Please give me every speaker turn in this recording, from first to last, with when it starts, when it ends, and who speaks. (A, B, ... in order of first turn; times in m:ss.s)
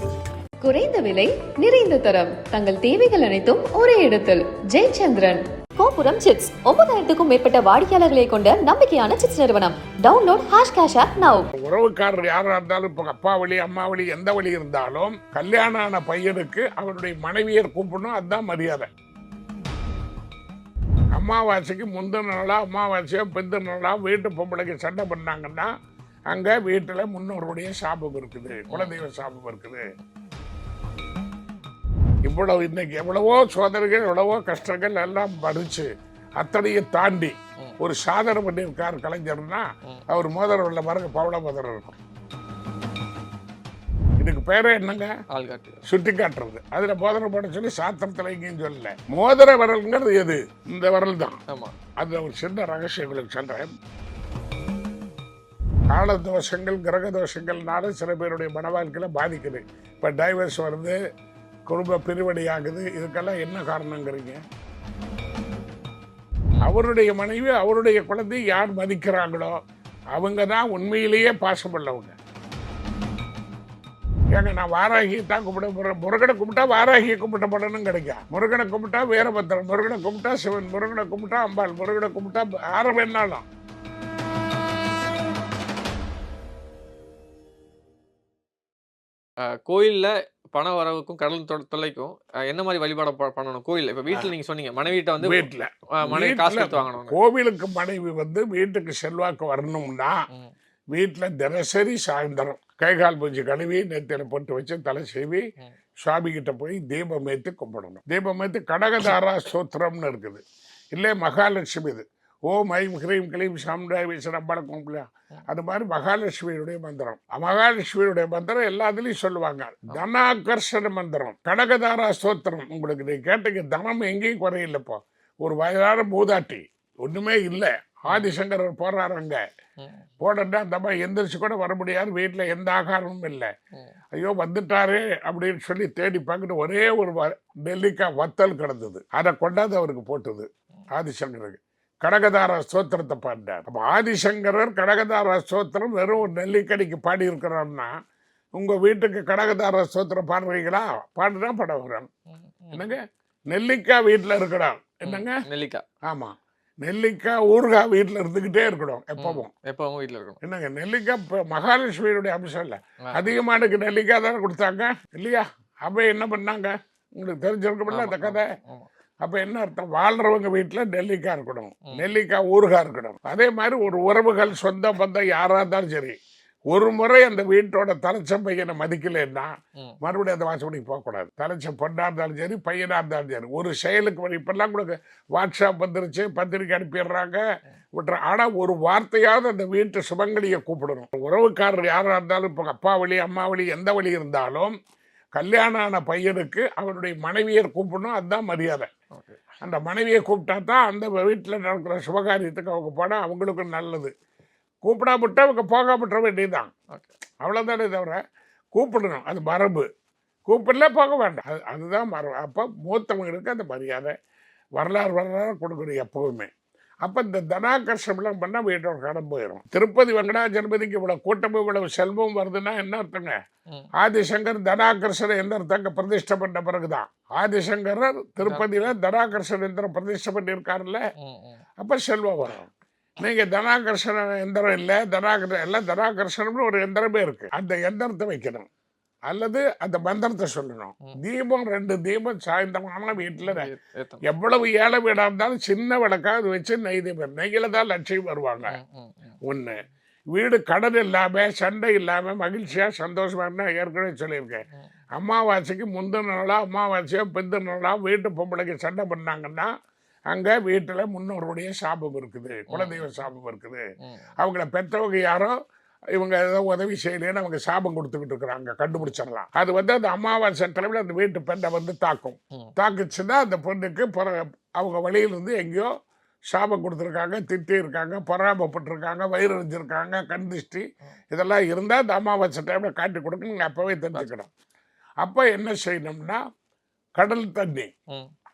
0:00.6-0:11.5 A
0:11.5-0:18.9 B
0:21.1-0:25.7 B
0:26.3-0:29.8 B
0:28.7-0:29.0 C
0:32.2-0:42.0 B
0:44.2-0:45.1 B
0:45.3-0:45.8 C
0:45.9-0:51.4 B
0:51.5-0:51.7 C
0:52.0-0:53.7 B
0:55.9-1:01.0 B
1:01.7-1:04.4 B
1:06.6-1:09.6 B
1:10.1-1:12.1 B
1:14.3-1:23.4 B
1:29.4-1:37.2 C
1:35.2-1:40.2 B
1:40.9-1:45.4 B
1:46.0-1:50.4 B
1:50.9-2:09.4 B
2:09.8-2:10.0 C
2:10.2-2:13.5 B
2:14.1-2:27.9 B
2:28.6-2:32.1 B
2:32.3-2:33.0 C
2:32.7-2:35.4 B
2:35.0-2:35.8 C
2:36.0-2:39.5 B
2:39.2-2:40.4 C
2:40.4-2:48.5 B
2:43.0-2:43.3 C
2:47.9-2:48.9 C
2:49.2-2:56.2 B
2:56.7-3:07.4 B
3:08.0-3:14.8 B
3:15.3-3:18.9 B
3:19.1-3:19.4 C
3:19.6-3:24.1 B
3:24.8-3:26.7 B
3:27.4-3:28.2 B
3:28.7-3:29.9 B
3:30.4-3:34.1 B
3:34.8-3:36.5 B
3:37.0-3:43.4 B
3:44.0-3:51.0 B
3:51.2-3:51.6 C
3:51.8-3:52.7 B
3:53.2-3:58.7 B
3:59.3-4:03.7 B
4:03.4-4:04.2 C
4:04.2-4:08.7 B
4:08.7-4:09.4 C
4:09.4-4:09.8 B
4:10.3-4:14.6 B
4:15.2-4:19.7 B
4:20.3-4:23.8 B
4:22.7-4:23.1 C
4:24.0-4:24.3 C
4:24.4-4:25.6 B
4:26.1-4:35.9 B
4:36.5-4:44.5 B
4:45.2-4:46.4 B
4:47.2-4:47.9 B